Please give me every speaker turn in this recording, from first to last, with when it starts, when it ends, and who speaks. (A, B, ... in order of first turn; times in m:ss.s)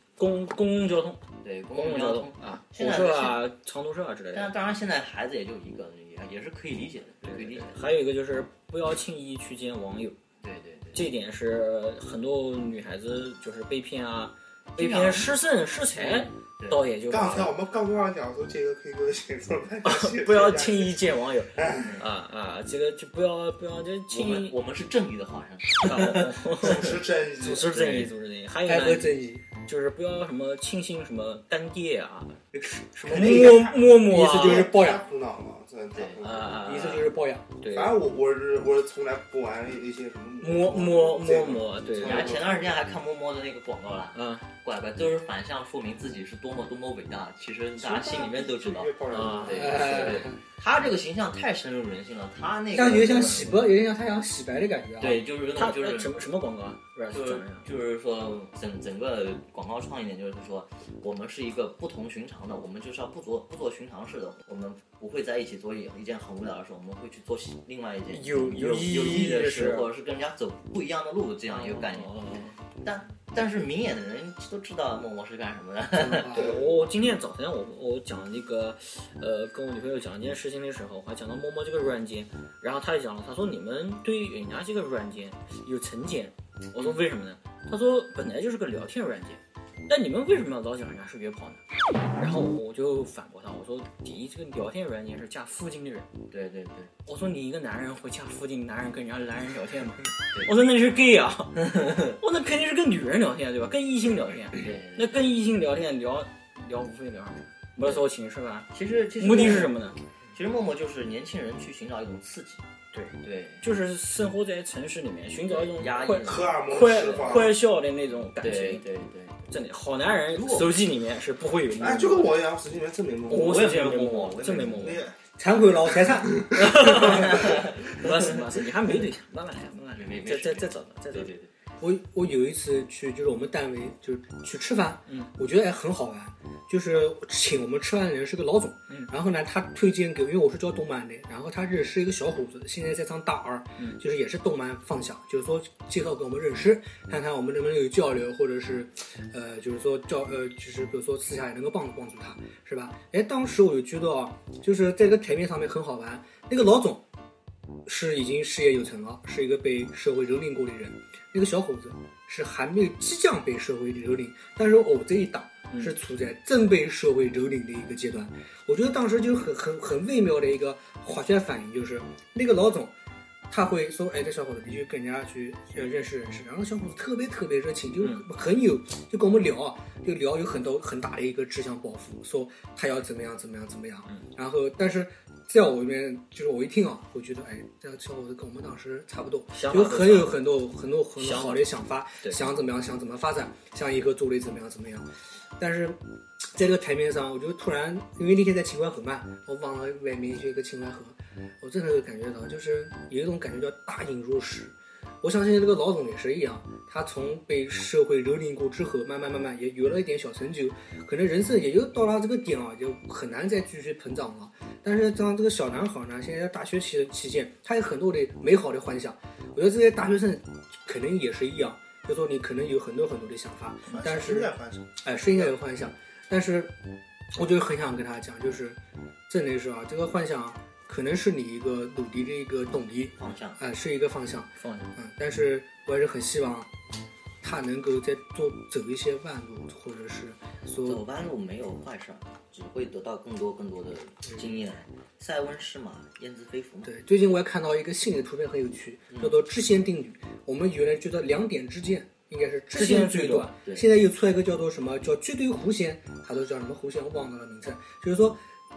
0:00.2-0:04.5 A
0:01.4-0:03.4 B
0:04.3-0:07.8 B
0:07.2-0:10.2 A
0:10.4-0:11.1 B
0:10.9-0:17.5 A
0:14.8-0:15.4 B
0:15.9-0:16.8 B
0:17.1-0:22.0 C
0:19.8-0:24.6 A
0:24.1-0:27.0 B
0:25.8-0:29.1 A
0:26.6-0:28.1 C
0:28.7-0:29.4 D
0:29.6-0:34.7 A
0:32.5-0:36.7 C
0:33.1-0:35.0 D
0:35.9-0:36.3 B
0:36.2-0:38.0 A
0:36.6-0:37.4 D
0:37.7-0:42.8 C
0:40.4-0:42.4 A
0:42.0-0:53.7 B
0:44.2-0:44.5 A
0:47.8-0:50.2 C
0:49.1-0:49.8 A
0:49.5-0:50.4 D
0:52.7-0:55.2 D
0:55.0-0:56.1 B
0:55.5-0:57.7 A
0:57.1-1:12.2 B
1:08.1-1:09.9 A
1:11.5-1:12.6 A
1:12.8-1:16.6 B
1:15.9-1:16.6 D
1:16.3-1:31.6 A
1:16.3-1:16.8 C
1:32.2-1:36.1 A
1:36.3-1:36.9 B
1:37.0-1:50.0 A
1:41.6-1:42.2 B
1:44.6-1:45.3 B
1:48.7-1:52.6 B
1:52.9-1:58.8 A
1:53.2-1:53.7 B
1:55.4-1:57.6 B
1:56.2-1:57.6 C
1:58.4-1:59.4 B
1:59.5-2:02.3 A
2:00.3-2:00.8 B
2:01.7-2:03.7 C
2:03.3-2:05.0 A
2:03.3-2:05.0 B
2:04.8-2:05.2 C
2:05.4-2:06.4 D
2:06.2-2:07.2 C
2:06.5-2:11.3 A
2:07.0-2:08.2 B
2:10.0-2:11.5 B
2:11.8-2:37.0 D
2:37.9-2:52.9 D
2:53.5-3:16.0 D
3:09.5-3:10.4 A
3:11.2-3:11.7 A
3:12.2-3:12.5 A
3:16.5-3:46.8 D
3:43.9-3:45.6 C
3:47.3-3:48.8 D
3:49.3-3:56.7 D
3:53.2-3:53.6 B
3:54.6-3:54.9 A
3:57.4-4:01.0 D
4:00.8-4:07.0 B
4:06.8-4:18.4 D
4:09.1-4:09.4 B
4:12.8-4:13.6 A
4:13.6-4:13.9 B